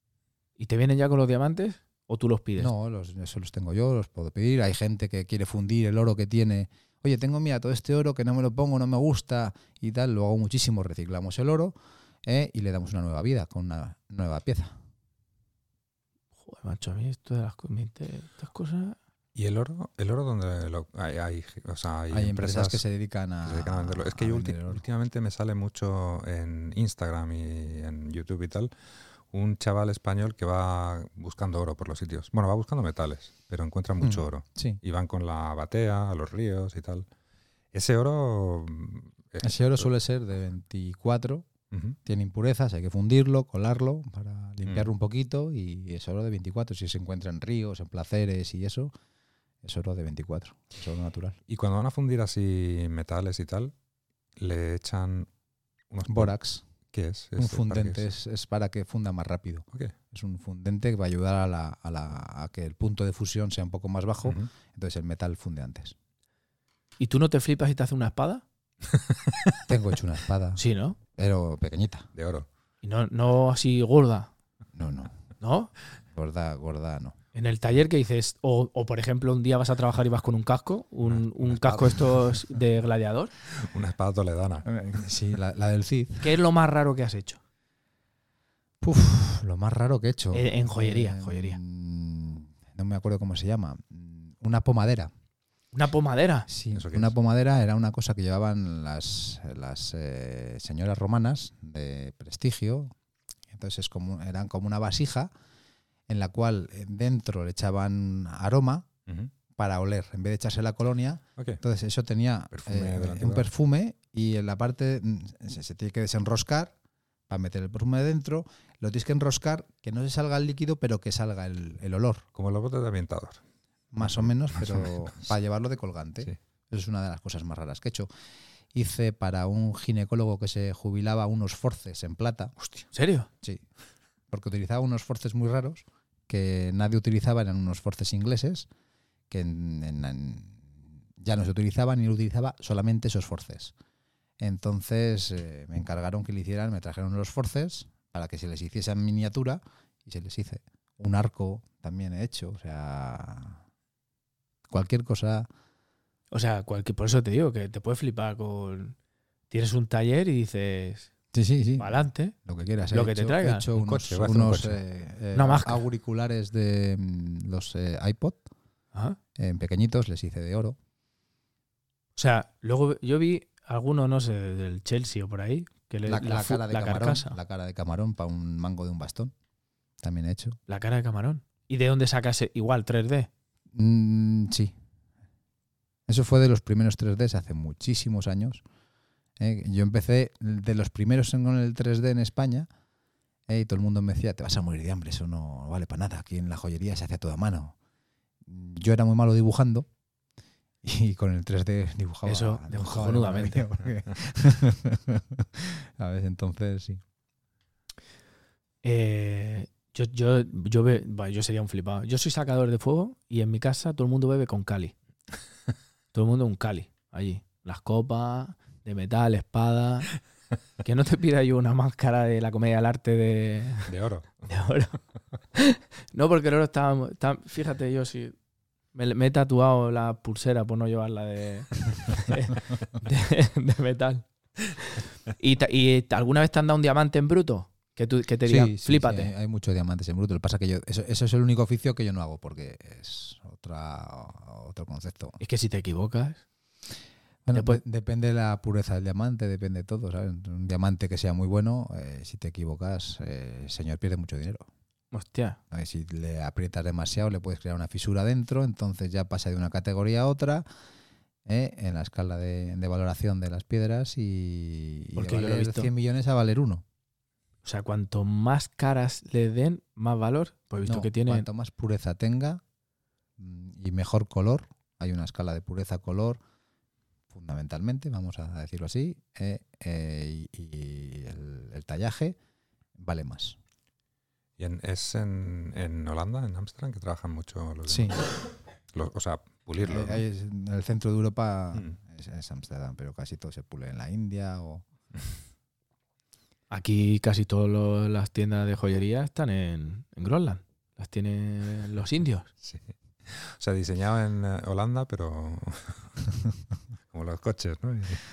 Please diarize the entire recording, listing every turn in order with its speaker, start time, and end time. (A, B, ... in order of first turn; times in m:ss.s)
0:00.6-0:02.7 A
0:02.6-0:14.8 B
0:16.4-0:19.0 A
0:19.4-0:22.8 C
0:22.1-0:24.8 B
0:23.4-0:28.7 C
0:29.3-0:37.0 C
0:34.0-0:34.8 B
0:37.7-0:39.9 C
0:39.4-0:41.5 B
0:41.7-0:42.0 C
0:42.0-0:48.9 B
0:49.6-0:51.4 B
0:51.5-0:53.7 C
0:54.4-0:55.3 C
0:55.9-0:56.3 C
0:56.0-0:56.6 B
0:56.9-0:58.0 C
0:57.4-1:05.9 B
1:04.2-1:04.5 C
1:07.0-1:08.4 A
1:09.7-1:10.6 B
1:10.6-1:11.0 A
1:11.2-1:12.1 B
1:12.1-1:12.5 C
1:12.8-1:14.3 A
1:14.7-1:15.1 B
1:15.4-1:15.7 A
1:16.1-1:17.2 B
1:17.3-1:23.3 A
1:21.2-1:22.0 C
1:23.6-1:24.7 C
1:24.6-1:26.3 B
1:26.2-1:27.4 A
1:28.8-1:35.1 B
1:30.3-1:31.6 A
1:35.7-1:36.4 A
1:36.5-1:42.9 B
1:36.7-1:37.1 C
1:43.5-1:45.3 B
1:46.1-1:48.9 B
1:49.6-1:56.7 B
1:52.5-1:53.4 C
1:57.3-2:02.2 B
2:02.4-2:03.4 C
2:03.9-2:08.1 B
2:04.0-2:04.9 C
2:08.7-2:12.5 B
2:12.9-2:13.3 A
2:14.3-2:18.7 B
2:19.3-2:23.7 B
2:24.4-2:33.6 B
2:34.7-2:35.5 B
2:36.3-2:39.0 A
2:39.5-2:41.1 A
2:41.3-2:48.5 B
2:41.8-2:42.3 A
2:42.9-2:43.6 A
2:43.8-2:44.8 C
2:45.3-2:45.8 A
2:49.4-2:50.8 B
2:52.2-2:57.4 A
2:56.0-2:59.3 B
3:00.0-3:00.6 B
3:00.7-3:03.3 A
3:03.7-3:04.7 B
3:06.1-3:08.6 B
3:09.4-3:12.7 B
3:13.5-3:17.7 B
3:18.4-3:19.9 B
3:20.8-3:27.0 B
3:22.2-3:23.7 A
3:28.8-3:34.9 A
3:36.1-3:40.1 A
3:40.8-3:43.9 A
3:43.9-3:44.5 C
3:44.5-3:45.0 A
3:45.6-3:48.3 A
3:48.9-3:54.2 A
3:54.8-3:59.3 A
3:58.5-4:05.4 B
4:05.4-4:06.4 A
4:07.4-4:14.7 B
4:07.5-4:07.8 A
4:15.1-4:15.6 A
4:15.7-4:20.6 B
4:21.4-4:26.8 B
4:25.2-4:25.9 A
4:27.6-4:31.5 A
4:30.8-4:32.6 B
4:33.4-4:36.4 B
4:37.3-4:42.4 B
4:43.0-4:43.6 B
4:44.6-4:48.3 C
4:47.9-4:48.2 B
4:48.9-4:50.2 C
4:49.8-4:54.8 B
4:56.7-5:02.5 A
5:02.6-5:06.1 C
5:07.1-5:08.2 C